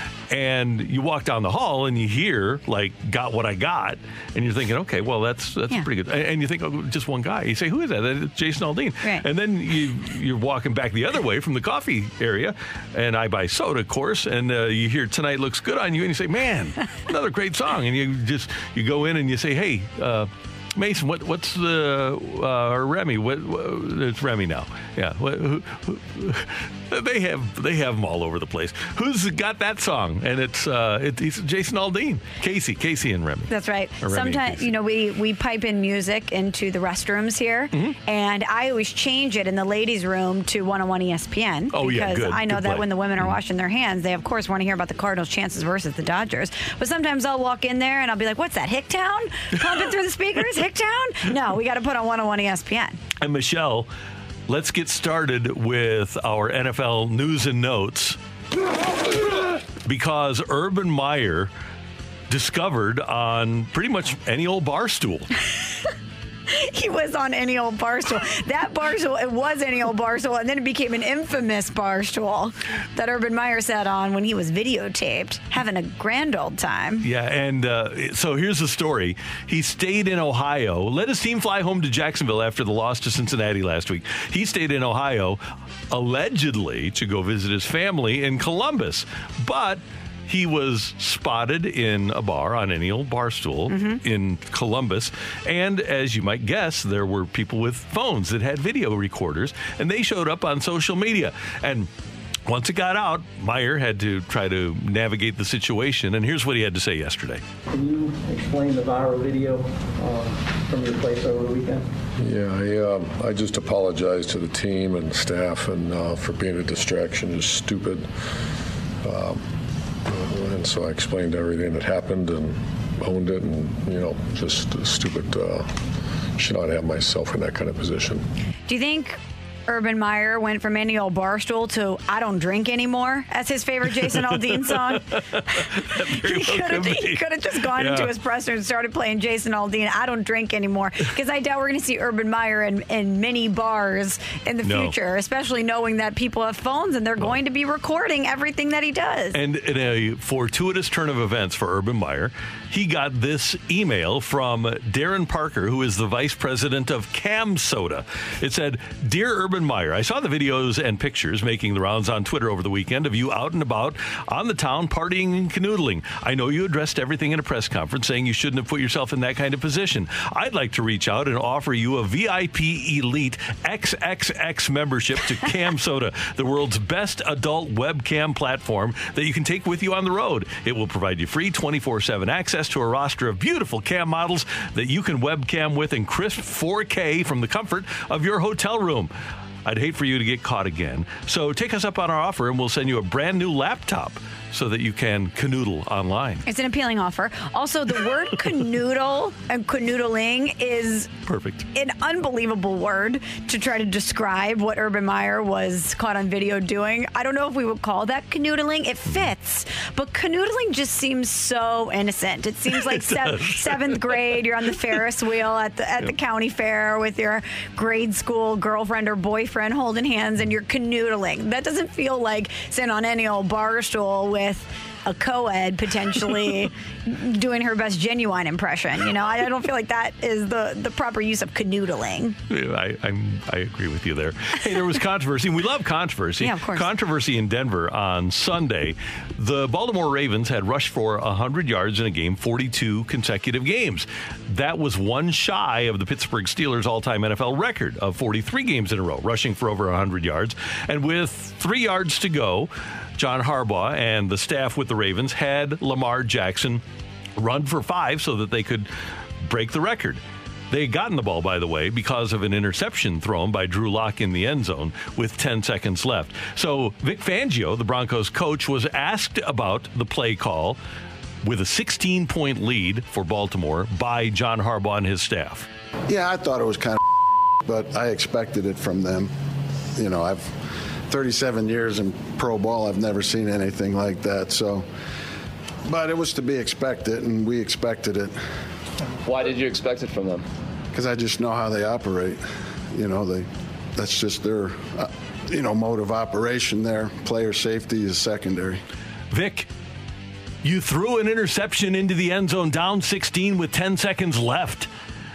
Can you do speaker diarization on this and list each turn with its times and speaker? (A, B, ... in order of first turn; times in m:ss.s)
0:00.3-0:33.5 A
0:33.5-0:53.0 B
0:34.0-0:34.7 A
0:41.7-0:43.3 A
0:53.2-0:53.9 A
0:54.5-0:58.2 A
0:59.8-1:01.5 A
1:02.3-1:05.3 A
1:06.5-1:17.0 B
1:17.0-1:41.9 A
1:33.7-1:34.0 B
1:42.4-1:47.4 A
1:47.7-1:51.9 C
1:52.2-1:58.1 D
1:59.0-1:59.4 D
2:00.0-2:05.8 D
2:06.4-2:08.2 D
2:08.7-2:29.4 B
2:14.9-2:18.1 A
2:24.6-2:24.9 A
2:29.3-3:09.1 A
3:09.6-3:16.4 A
3:16.4-3:21.1 B
3:21.3-3:21.7 A
3:21.7-3:52.4 B
3:32.7-3:34.4 A
3:52.5-4:16.8 A
3:56.4-3:56.9 B
4:17.4-4:30.8 A
4:31.4-4:35.7 A
4:36.1-4:37.0 E
4:37.6-4:39.3 E
4:40.0-4:40.5 E
4:41.1-4:44.8 E
4:45.9-4:48.4 E
4:49.2-4:50.4 C
4:50.9-4:52.4 E
4:52.9-4:58.8 E
4:59.3-4:59.7 A
5:00.6-5:04.9 A